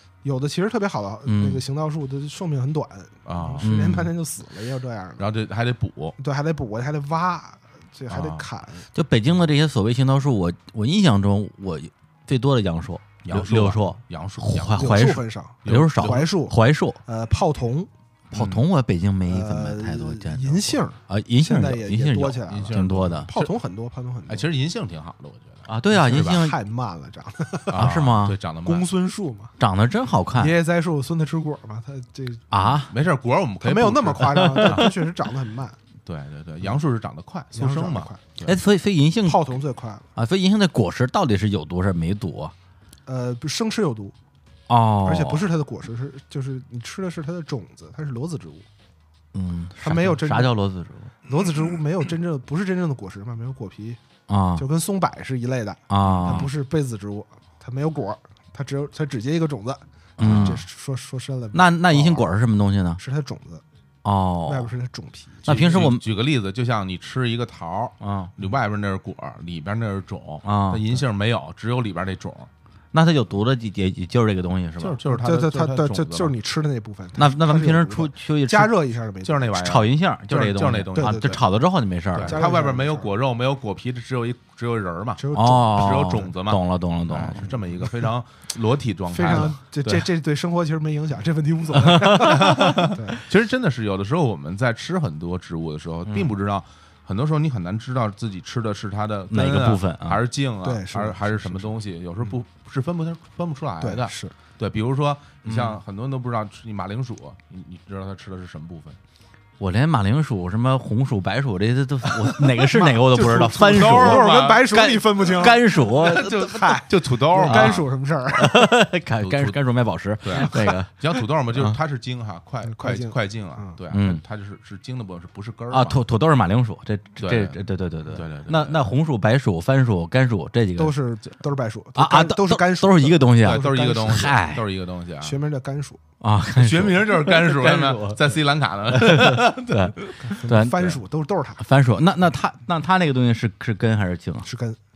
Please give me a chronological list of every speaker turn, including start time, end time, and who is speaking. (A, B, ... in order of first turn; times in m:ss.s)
0:00.2-0:05.2 A
0:01.3-0:01.6 B
0:03.3-0:03.7 C
0:03.6-0:04.1 B
0:05.2-0:06.2 C
0:06.2-0:08.9 A
0:08.1-0:08.4 C
0:08.9-0:17.0 B
0:13.2-0:15.1 C
0:14.8-0:17.9 A
0:15.6-0:16.3 C
0:18.3-0:23.3 B
0:18.3-0:18.6 C
0:19.3-0:24.5 A
0:22.5-0:23.5 C
0:24.3-0:26.4 C
0:25.7-0:26.6 B
0:25.9-0:28.0 A
0:27.7-0:28.9 C
0:27.8-0:28.4 B
0:28.6-0:29.5 A
0:29.6-0:30.6 B
0:30.4-0:32.5 A
0:32.5-0:32.9 B
0:32.9-0:34.9 C
0:33.6-0:35.8 A
0:34.3-0:34.8 B
0:36.1-0:38.6 C
0:37.5-0:38.3 A
0:38.5-0:39.4 B
0:39.2-0:40.1 A
0:40.2-0:42.5 B
0:43.1-0:44.2 A
0:44.7-0:45.5 B
0:45.0-0:48.7 A
0:49.3-0:51.1 B
0:49.8-0:50.6 A
0:51.3-0:54.0 A
0:54.3-0:54.6 B
0:54.6-1:02.4 A
0:55.9-0:56.5 B
0:56.0-0:56.5 C
1:00.2-1:00.6 B
1:00.2-1:00.6 C
1:01.5-1:03.0 B
1:03.0-1:03.6 A
1:04.0-1:04.7 B
1:04.5-1:05.9 A
1:05.4-1:12.5 C
1:05.5-1:06.0 B
1:08.0-1:08.3 B
1:10.4-1:11.0 B
1:12.9-1:15.0 B
1:14.8-1:16.3 C
1:15.0-1:19.6 A
1:17.2-1:18.8 B
1:19.2-1:21.4 C
1:19.6-1:22.4 B
1:20.9-1:21.4 A
1:22.2-1:30.1 C
1:22.3-1:23.1 A
1:25.2-1:26.0 A
1:25.3-1:27.5 B
1:27.5-1:28.1 A
1:29.1-1:33.2 A
1:31.8-1:32.9 B
1:32.2-1:49.0 C
1:39.3-1:40.2 B
1:40.6-1:41.8 A
1:43.8-1:44.3 A
1:45.4-1:45.8 B
1:49.6-1:56.5 B
1:52.7-1:58.7 A
1:53.4-1:57.9 C
1:57.5-1:57.8 B
1:58.3-2:00.9 B
1:59.2-1:59.6 C
2:00.2-2:06.0 C
2:02.7-2:03.8 A
2:03.9-2:04.2 B
2:05.7-2:11.0 B
2:07.2-2:08.9 C
2:10.8-2:14.3 A
2:12.0-2:14.6 B
2:13.4-2:15.4 C
2:15.2-2:16.0 A
2:16.2-2:18.4 B
2:16.6-2:20.4 C
2:18.9-2:21.0 B
2:20.2-2:21.6 A
2:21.6-2:24.5 B
2:24.4-2:24.8 A